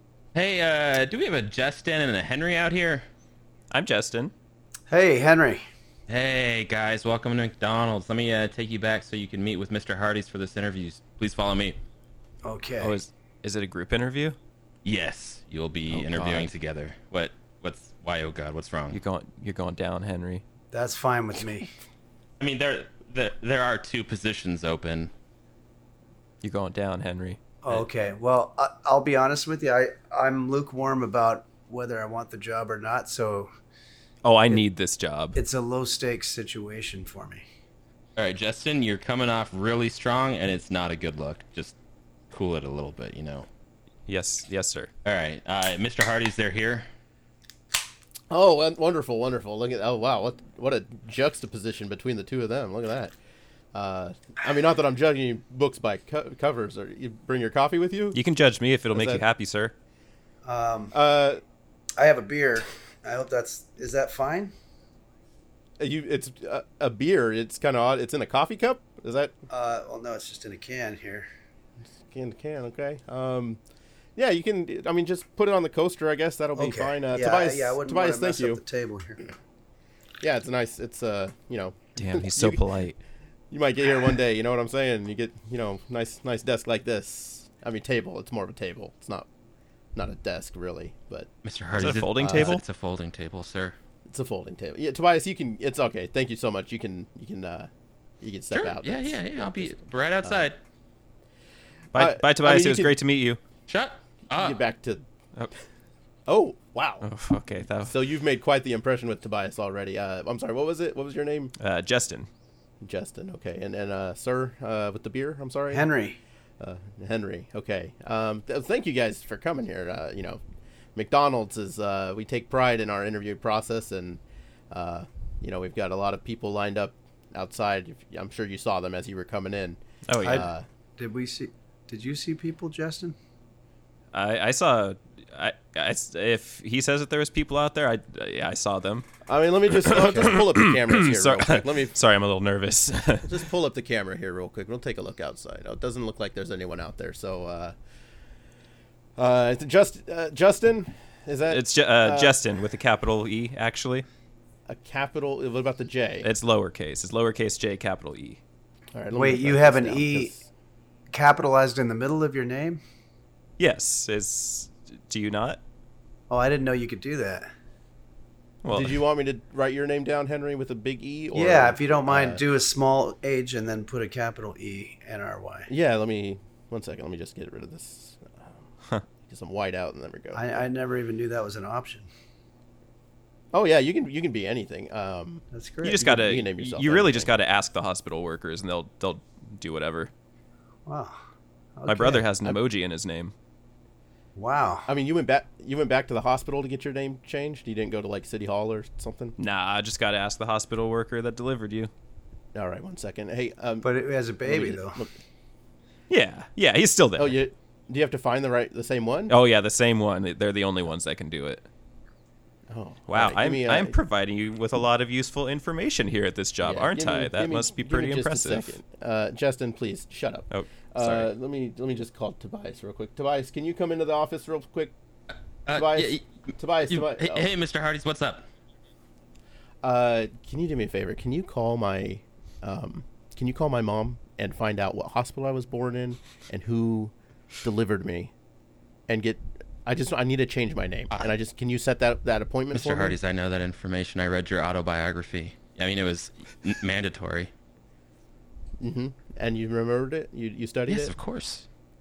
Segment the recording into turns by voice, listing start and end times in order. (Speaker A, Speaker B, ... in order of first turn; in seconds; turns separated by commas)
Speaker A: 0.3-3.0, Speaker B: 3.7-4.3, Speaker C: 4.9-5.6, Speaker A: 6.1-11.8, Speaker C: 12.4-13.0, Speaker B: 12.8-14.4, Speaker A: 14.8-19.0, Speaker B: 15.9-16.5, Speaker B: 18.9-20.4, Speaker C: 20.7-21.7, Speaker A: 22.4-25.1, Speaker B: 26.4-27.4, Speaker C: 27.6-33.5, Speaker B: 34.2-35.4, Speaker C: 35.3-37.4, Speaker A: 38.1-41.8, Speaker A: 42.3-43.5, Speaker B: 44.1-44.9, Speaker A: 45.0-46.9, Speaker D: 48.3-53.1, Speaker D: 53.7-58.2, Speaker B: 58.1-59.7, Speaker D: 58.9-59.2, Speaker C: 60.4-60.9, Speaker D: 60.9-61.4, Speaker C: 62.0-64.5, Speaker D: 65.8-69.3, Speaker C: 69.5-71.3, Speaker D: 71.9-73.6, Speaker D: 74.2-78.6, Speaker C: 76.5-79.3, Speaker D: 80.2-82.6, Speaker B: 82.0-83.0, Speaker D: 83.5-89.3, Speaker D: 89.9-92.6, Speaker A: 91.4-93.8, Speaker B: 91.8-92.6, Speaker D: 94.1-97.7, Speaker D: 98.2-100.5, Speaker A: 98.5-100.6, Speaker D: 101.9-102.9, Speaker B: 101.9-103.4, Speaker A: 103.7-104.6, Speaker D: 104.3-105.0, Speaker D: 106.3-107.1, Speaker B: 107.0-107.9, Speaker D: 107.8-111.5, Speaker B: 111.6-112.3, Speaker D: 112.8-115.9, Speaker C: 115.7-116.2, Speaker D: 116.6-120.4, Speaker D: 120.9-124.2, Speaker D: 124.7-130.6, Speaker B: 130.1-130.5, Speaker C: 130.2-133.2, Speaker B: 134.1-139.1, Speaker D: 139.2-141.9, Speaker B: 139.7-143.4, Speaker C: 139.9-140.4, Speaker D: 143.2-147.7, Speaker D: 149.2-152.4, Speaker B: 151.5-154.1, Speaker D: 154.7-156.3, Speaker B: 156.2-158.4, Speaker D: 158.9-160.4, Speaker C: 159.1-160.3, Speaker C: 161.1-162.8, Speaker B: 163.6-165.6, Speaker C: 166.3-167.5, Speaker B: 168.6-169.0, Speaker D: 168.7-172.4, Speaker C: 171.3-175.7, Speaker D: 175.7-178.7, Speaker D: 179.2-180.6, Speaker C: 180.3-182.1, Speaker D: 183.5-187.3, Speaker C: 185.5-186.0, Speaker B: 185.8-190.1, Speaker C: 190.9-191.2, Speaker C: 191.8-192.3, Speaker B: 191.9-193.3, Speaker C: 194.3-194.9, Speaker D: 194.9-199.3, Speaker B: 199.4-201.9, Speaker D: 202.5-203.9, Speaker C: 203.8-205.0, Speaker D: 204.4-205.1, Speaker B: 206.1-207.4, Speaker D: 207.2-209.3, Speaker B: 209.3-211.7, Speaker D: 212.7-214.0, Speaker B: 213.1-218.8, Speaker D: 216.6-224.9, Speaker B: 220.5-221.3, Speaker A: 225.7-226.3, Speaker D: 225.7-227.5, Speaker A: 226.9-228.4, Speaker D: 229.8-238.3, Speaker D: 239.1-243.2, Speaker A: 242.7-247.5, Speaker D: 248.8-251.1, Speaker A: 250.9-251.7